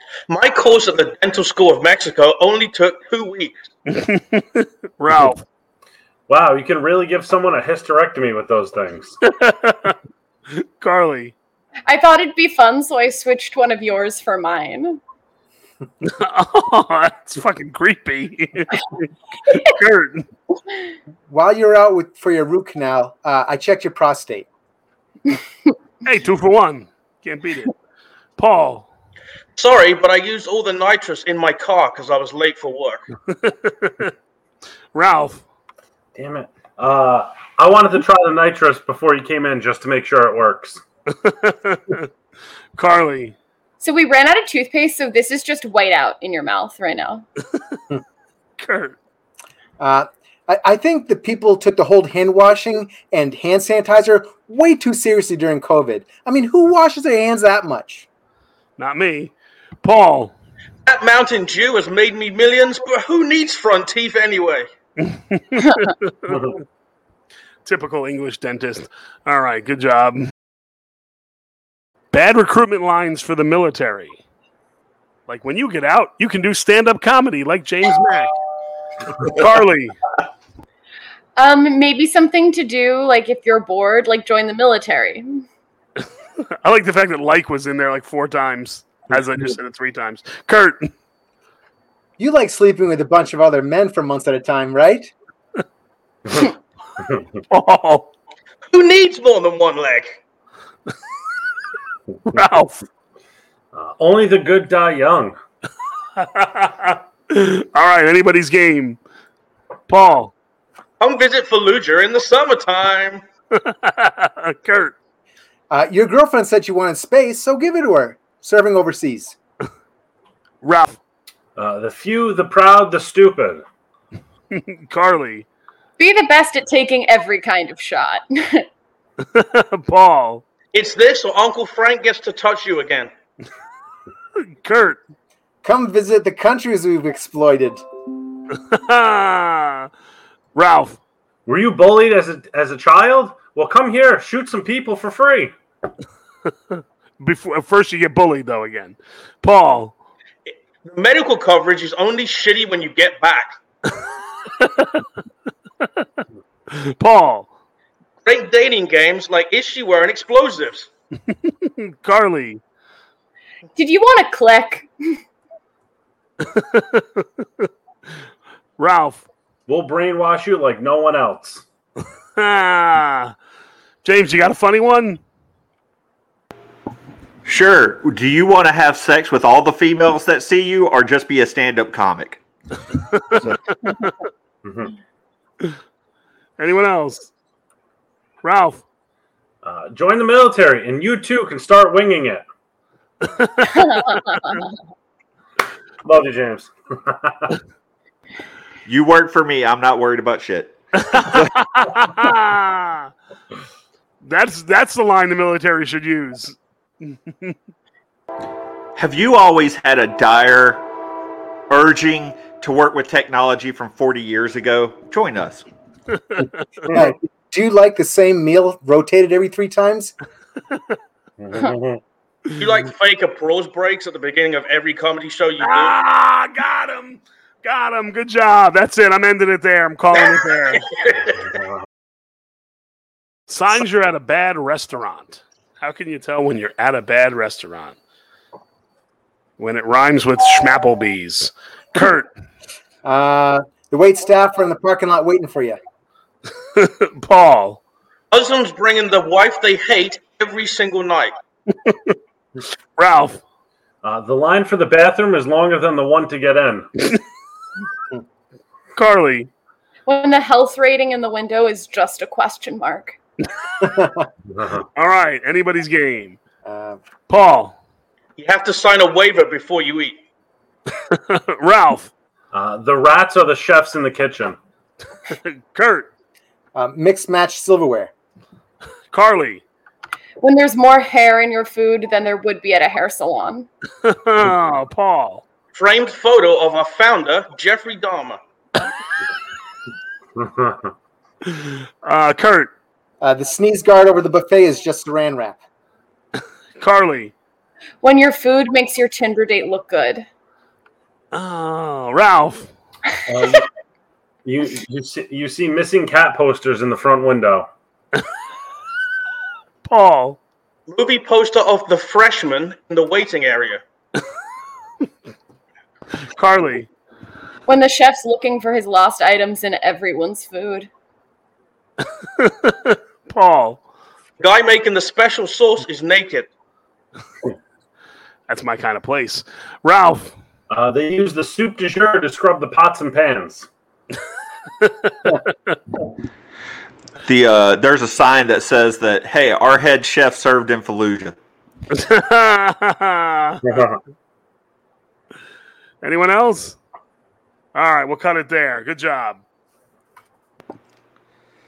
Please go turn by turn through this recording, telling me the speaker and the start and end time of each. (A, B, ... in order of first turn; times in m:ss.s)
0:00.3-0:03.5 A
0:03.9-0:05.4 B
0:06.3-0:09.2 C
0:09.3-0:10.0 B
0:10.5-0:11.3 B
0:11.9-0:15.0 D
0:16.0-0:20.3 B
0:21.3-0:24.5 E
0:26.0-0:27.8 B
0:28.4-0:28.9 B
0:29.6-0:33.0 A
0:33.3-0:34.1 B
0:34.9-0:35.4 B
0:36.2-0:40.8 C
0:41.2-0:42.1 B
0:42.8-0:43.4 B
0:43.8-0:47.3 D
0:48.6-0:49.0 B
0:49.8-0:58.1 E
0:58.8-1:00.3 B
1:00.9-1:04.7 A
1:05.0-1:06.4 B
1:06.3-1:06.6 C
1:07.6-1:10.2 B
1:12.1-1:14.2 B
1:15.3-1:18.3 B
1:19.2-1:20.0 B
1:21.4-1:25.4 D
1:26.6-1:30.9 B
1:32.2-1:35.1 E
1:37.5-1:38.1 B
1:38.7-1:40.2 A
1:42.3-1:42.9 B
1:43.7-1:45.4 C
1:46.2-1:49.0 B
1:49.9-1:50.3 B
1:51.0-1:53.2 A
1:53.6-1:54.9 B
1:55.7-1:59.4 E
2:00.6-2:01.0 B
2:01.6-2:03.6 C
2:04.5-2:05.5 B
2:06.0-2:08.6 D
2:09.3-2:10.4 B
2:10.7-2:13.1 A
2:14.4-2:15.0 B
2:15.6-2:17.8 E
2:18.6-2:19.9 B
2:20.6-2:21.0 B
2:21.5-2:25.5 C
2:26.7-2:29.9 B
2:30.8-2:33.6 A
2:34.6-2:35.0 B
2:36.7-2:37.5 B
2:38.2-2:40.9 A
2:41.4-2:42.6 B
2:43.8-2:45.2 D
2:46.4-2:47.2 B
2:48.8-2:49.2 B
2:49.7-2:51.6 C
2:52.4-2:53.3 B
2:54.0-2:55.2 B
2:57.5-3:02.4 F
3:03.0-3:04.1 B
3:04.6-3:04.9 C
3:06.6-3:07.3 B
3:08.4-3:08.8 B
3:09.6-3:12.4 C
3:13.2-3:14.6 B
3:13.9-3:14.6 D
3:16.0-3:17.6 C
3:18.9-3:21.5 F
3:21.0-3:23.1 B
3:24.2-3:27.6 B
3:29.0-3:30.8 F
3:31.7-3:35.6 F
3:36.9-3:40.1 E
3:41.4-3:42.0 C
3:42.6-3:46.0 A
3:45.6-3:50.8 B
3:50.1-3:51.6 A
3:51.6-3:51.8 C
3:53.5-3:58.0 B
3:59.6-4:02.3 B
4:03.0-4:05.8 E
4:06.8-4:07.8 B
4:08.3-4:11.3 A
4:11.8-4:12.1 B
4:13.0-4:13.4 B
4:14.0-4:16.9 C
4:19.0-4:19.5 B
4:20.1-4:23.2 D
4:24.5-4:24.8 C
4:25.0-4:26.4 B
4:26.6-4:27.0 E
4:27.3-4:27.8 B
4:28.4-4:30.2 A
4:31.1-4:32.1 B
4:32.5-4:34.6 C
4:35.3-4:36.1 B
4:36.8-4:38.1 E
4:39.1-4:39.6 B
4:40.4-4:43.7 D
4:44.0-4:45.4 B
4:45.7-4:48.4 A
4:50.4-4:50.9 C
4:51.5-4:52.7 B
4:53.2-4:55.6 E
4:56.8-4:57.3 B
4:58.0-5:00.2 D
5:01.3-5:02.7 B
5:03.3-5:03.7 C
5:04.4-5:07.7 C
5:09.8-5:10.4 B
5:10.9-5:13.8 A
5:16.3-5:16.9 B
5:17.7-5:20.9 D
5:22.4-5:23.8 B
5:24.4-5:26.5 A
5:28.5-5:30.3 B
5:30.7-5:33.7 C
5:34.8-5:35.4 B
5:37.2-5:41.4 F
5:41.9-5:43.6 B
5:43.6-5:44.0 C
5:46.0-5:46.8 B
5:47.7-5:49.4 B